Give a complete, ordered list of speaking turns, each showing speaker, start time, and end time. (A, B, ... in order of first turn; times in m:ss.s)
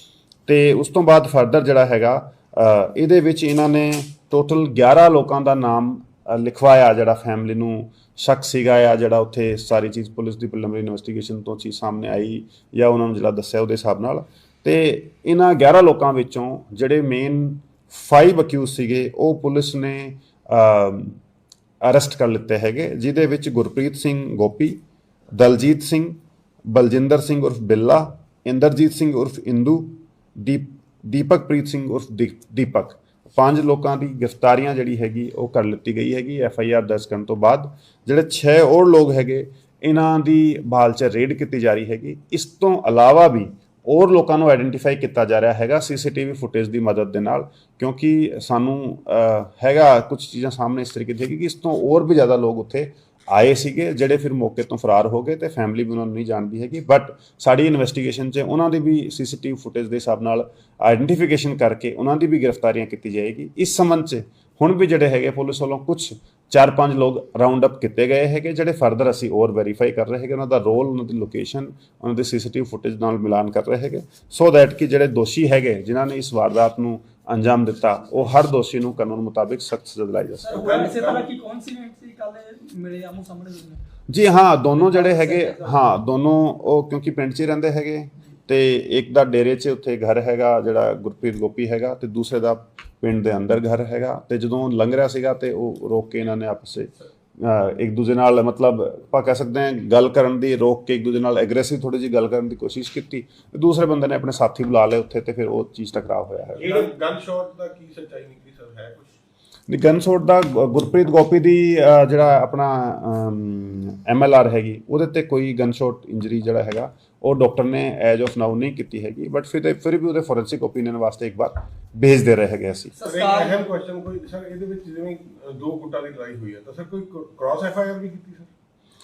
0:00.5-0:21.2 A
0:21.8-0:24.8 A
0:25.3-0:26.2 A
0:26.7-1:20.8 A
1:20.4-1:23.8 B
1:20.5-1:21.3 C
1:24.1-1:46.8 A
1:24.7-1:25.8 B
1:46.6-1:49.1 C
1:49.7-2:02.9 A
2:02.9-2:03.6 B
2:03.0-2:08.5 C